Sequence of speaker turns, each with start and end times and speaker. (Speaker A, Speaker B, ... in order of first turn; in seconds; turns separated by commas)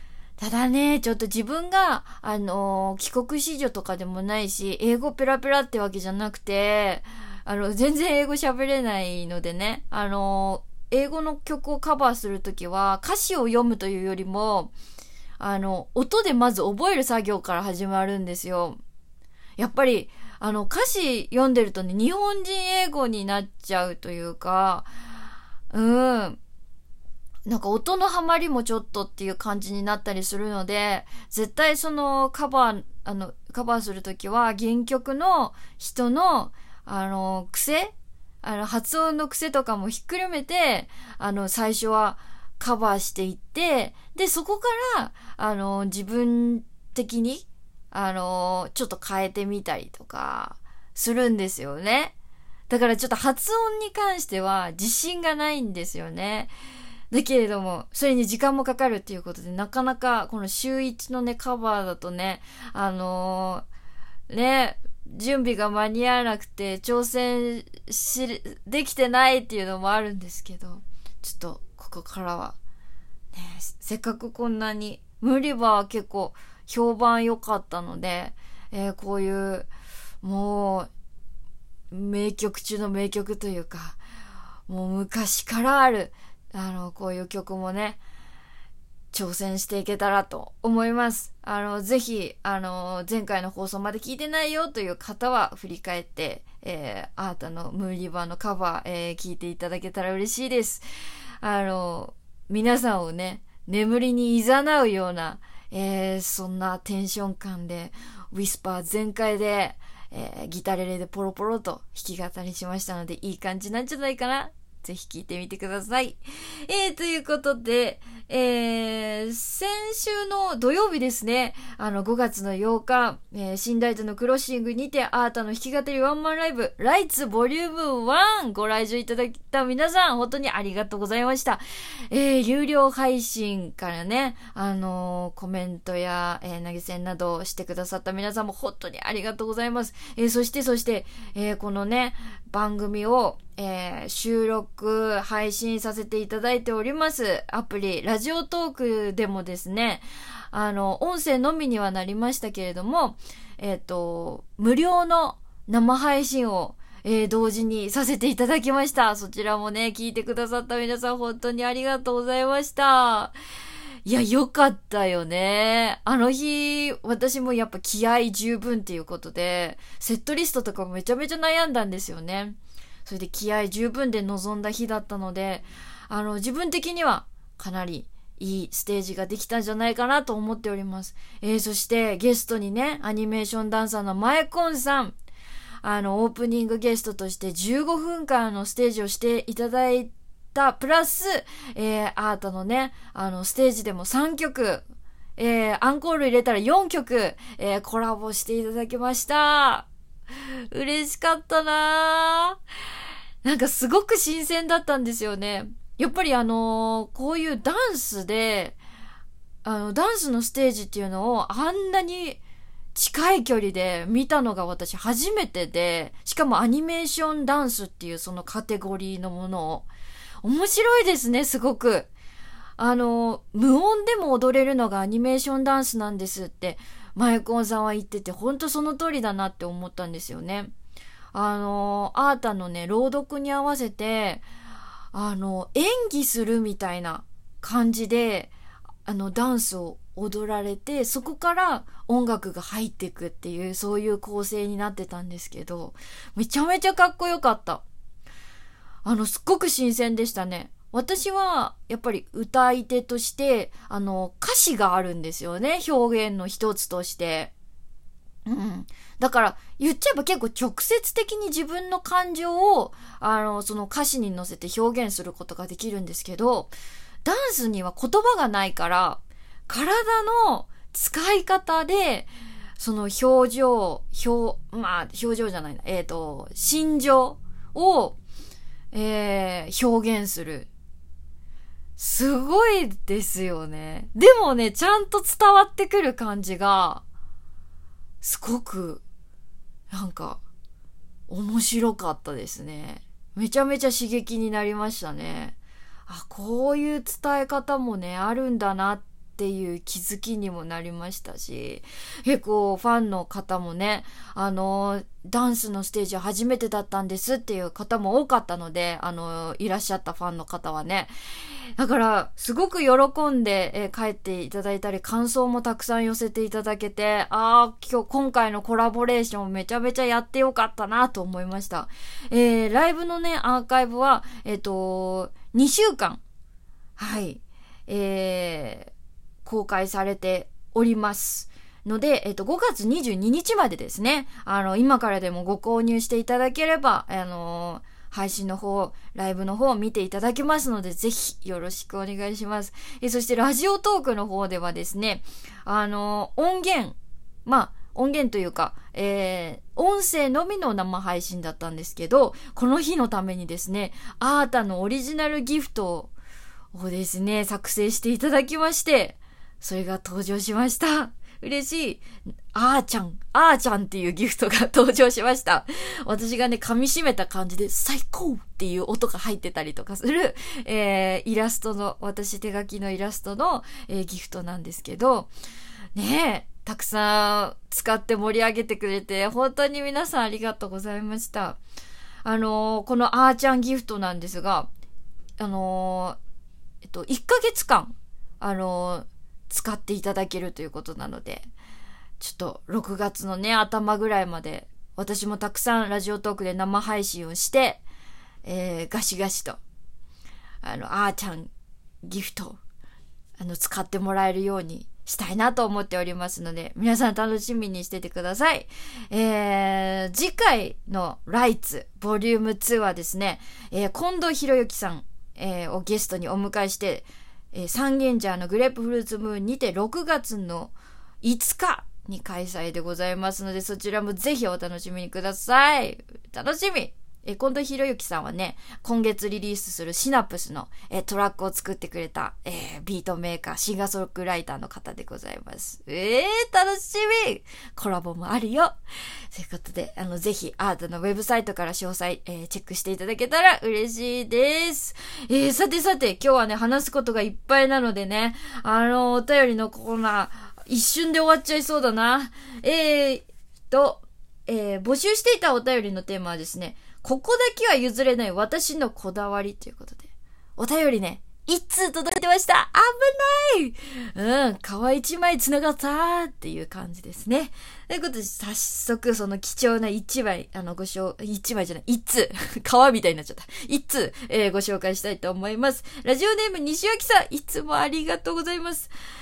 Speaker A: 0.4-14.7, Speaker A: 15.4-18.8, Speaker A: 19.6-24.9, Speaker A: 25.7-26.4, Speaker A: 27.4-52.1, Speaker A: 52.7-56.5, Speaker A: 57.1-63.6, Speaker A: 64.3-72.5, Speaker A: 73.3-79.7, Speaker A: 80.2-80.9, Speaker A: 81.9-84.0, Speaker A: 84.7-88.0, Speaker A: 89.1-100.8, Speaker A: 101.4-163.3, Speaker A: 164.0-185.2, Speaker A: 185.8-194.8, Speaker A: 195.4-199.9, Speaker A: 200.7-202.6, Speaker A: 203.4-208.8, Speaker A: 209.6-212.4, Speaker A: 212.9-219.9, Speaker A: 220.4-222.1, Speaker A: 222.8-230.7, Speaker A: 231.3-234.4, Speaker A: 235.1-238.5, Speaker A: 239.0-247.8, Speaker A: 249.0-257.5, Speaker A: 258.4-266.7, Speaker A: 267.2-278.2, Speaker A: 278.9-280.7, Speaker A: 282.0-287.0, Speaker A: 288.2-289.0, Speaker A: 289.9-290.4, Speaker A: 291.3-295.6, Speaker A: 296.1-311.1, Speaker A: 311.8-326.2, Speaker A: 327.0-328.9, Speaker A: 329.4-356.1, Speaker A: 356.7-375.3, Speaker A: 375.9-381.6, Speaker A: 382.2-384.7, Speaker A: 385.4-386.2, Speaker A: 386.8-391.5, Speaker A: 392.2-397.8, Speaker A: 398.4-399.6, Speaker A: 400.6-401.5, Speaker A: 402.0-402.6, Speaker A: 403.4-438.8, Speaker A: 439.3-478.9